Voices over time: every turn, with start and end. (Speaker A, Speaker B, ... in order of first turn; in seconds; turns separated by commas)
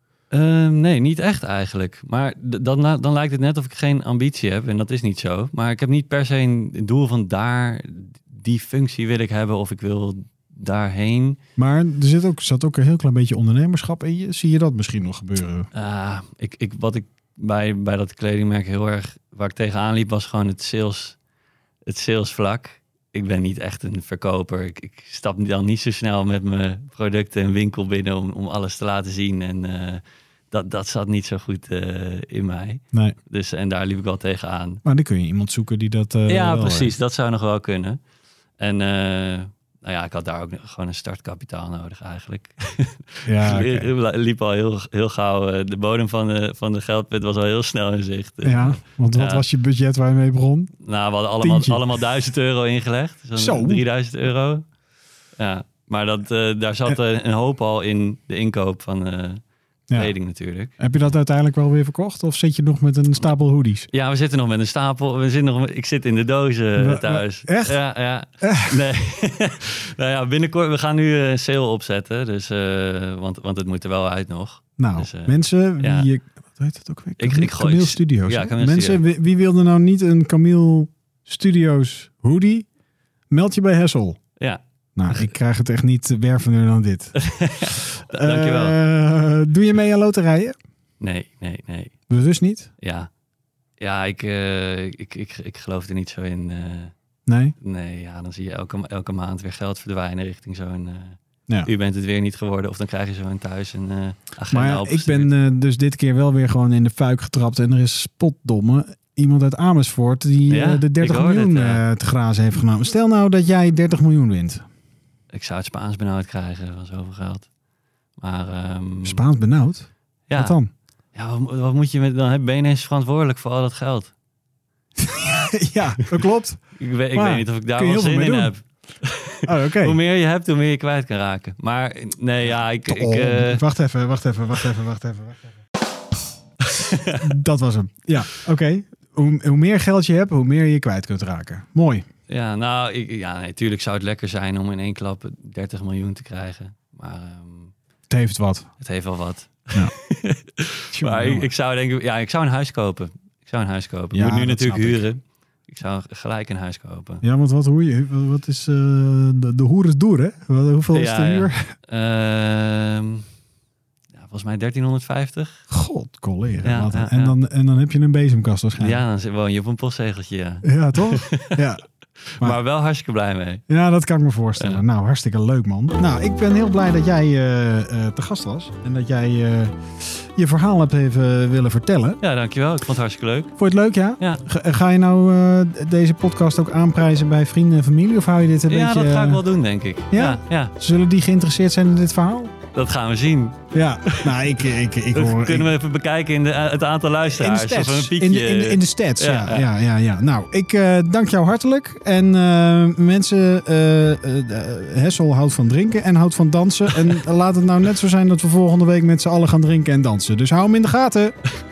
Speaker A: 0.3-11.4, Speaker B: 11.6-15.7, Speaker A: 15.7-21.2, Speaker A: 21.9-34.8, Speaker B: 34.8-36.9, Speaker A: 36.3-38.0, Speaker A: 38.6-49.4, Speaker B: 43.2-43.9, Speaker B: 48.4-50.7, Speaker A: 50.8-54.6, Speaker B: 51.4-51.8, Speaker B: 53.4-53.8, Speaker A: 55.4-59.4, Speaker A: 59.9-60.8, Speaker B: 60.8-63.9, Speaker A: 63.9-76.1, Speaker B: 66.8-67.8, Speaker B: 68.4-68.9, Speaker B: 74.8-82.7, Speaker A: 77.2-79.0, Speaker B: 83.3-84.2, Speaker A: 84.4-85.3, Speaker B: 85.0-90.5, Speaker A: 87.2-88.8, Speaker A: 91.0-91.9, Speaker B: 92.1-92.7, Speaker A: 92.8-93.1, Speaker A: 93.8-96.9, Speaker B: 97.2-97.5, Speaker A: 97.6-105.3, Speaker B: 104.5-114.6, Speaker A: 110.5-111.8, Speaker A: 115.3-117.5, Speaker A: 118.2-119.2, Speaker B: 119.0-120.7, Speaker A: 120.3-120.6, Speaker A: 121.1-124.1, Speaker B: 125.0-128.5, Speaker A: 126.8-133.6, Speaker B: 129.4-130.0, Speaker B: 132.4-135.4, Speaker A: 136.6-137.3, Speaker B: 137.2-142.0, Speaker A: 142.3-147.7, Speaker B: 148.1-148.7, Speaker A: 148.8-157.2, Speaker B: 150.9-151.5, Speaker B: 154.1-155.0, Speaker B: 157.2-161.7, Speaker A: 160.9-163.2, Speaker A: 164.1-165.6, Speaker B: 165.7-169.0, Speaker A: 166.6-167.4, Speaker A: 168.8-171.6, Speaker B: 170.6-171.8, Speaker A: 172.2-173.6, Speaker B: 173.7-182.2, Speaker A: 182.2-183.5, Speaker B: 183.6-189.4, Speaker A: 188.7-190.7, Speaker B: 190.1-192.5, Speaker A: 192.7-194.5, Speaker B: 193.7-195.7, Speaker A: 195.1-199.7, Speaker B: 197.3-211.3